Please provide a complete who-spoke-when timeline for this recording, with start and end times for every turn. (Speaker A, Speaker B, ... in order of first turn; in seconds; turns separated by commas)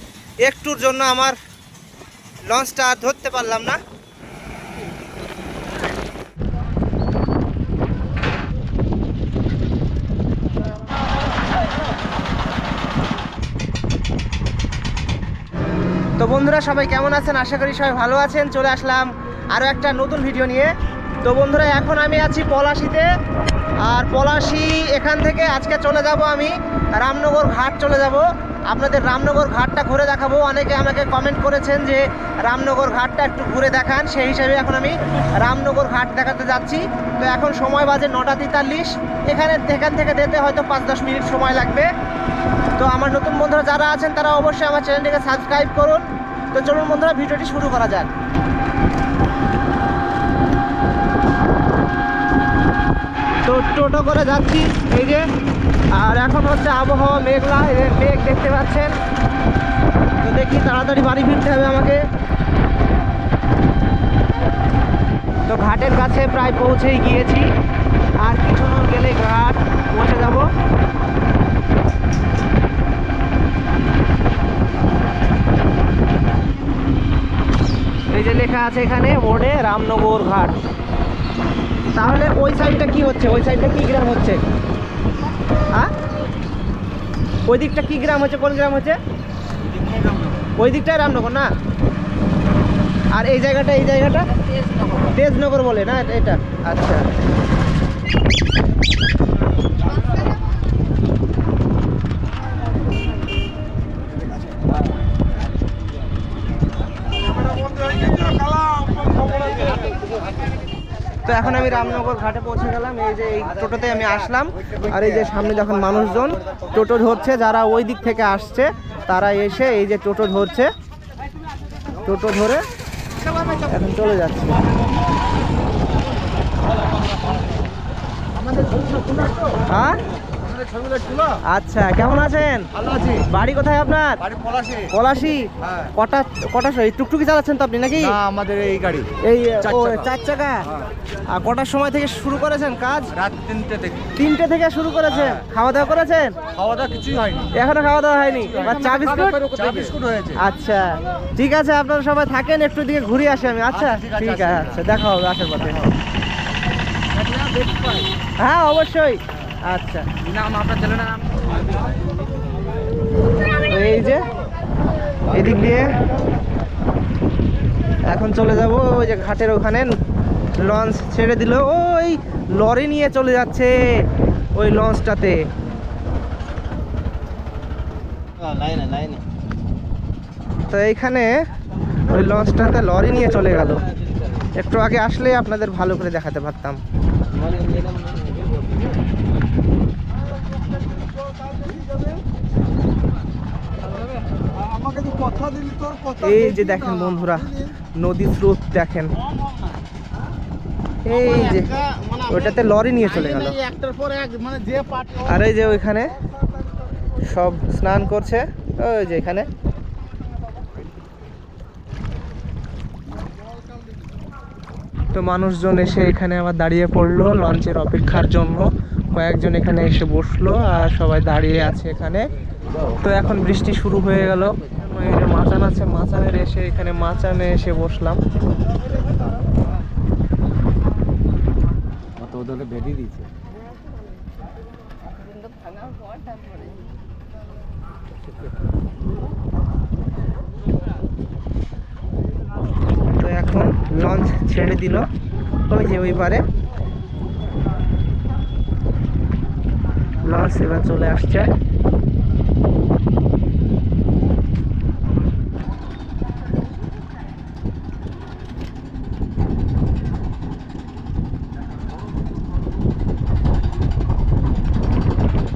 Speaker A: 0.4-1.4, Speaker A: 2.5-3.8, Speaker A: 16.2-23.1, Speaker A: 23.8-41.9, Speaker A: 42.8-48.1, Speaker A: 53.4-55.2, Speaker A: 55.9-58.9, Speaker A: 60.2-62.0, Speaker A: 65.5-67.5, Speaker A: 68.2-70.5, Speaker A: 78.1-80.6, Speaker A: 81.9-84.4, Speaker A: 87.5-89.0, Speaker A: 90.6-91.5, Speaker A: 93.1-97.0, Speaker A: 111.2-120.7, Speaker A: 122.0-122.7, Speaker A: 123.6-124.6, Speaker A: 129.7-130.0, Speaker A: 131.5-134.2, Speaker A: 134.8-138.2, Speaker B: 138.3-139.0, Speaker A: 139.2-140.7, Speaker A: 141.3-143.2, Speaker A: 144.2-146.4, Speaker B: 146.9-147.3, Speaker A: 147.5-155.9, Speaker A: 158.4-160.1, Speaker B: 160.6-161.1, Speaker A: 163.6-164.3, Speaker A: 165.3-165.9, Speaker A: 168.1-169.9, Speaker A: 170.6-173.8, Speaker A: 174.5-175.4, Speaker B: 178.5-179.2, Speaker A: 180.7-181.3, Speaker A: 182.1-183.8, Speaker A: 184.6-186.8, Speaker B: 187.7-187.9, Speaker B: 195.0-196.0, Speaker A: 196.2-199.1, Speaker A: 201.0-203.8, Speaker B: 203.8-205.1, Speaker A: 205.2-206.1, Speaker A: 207.2-209.5, Speaker A: 215.1-222.3, Speaker A: 222.9-228.2, Speaker B: 232.3-233.1, Speaker A: 243.2-245.1, Speaker A: 245.7-246.4, Speaker A: 250.2-251.5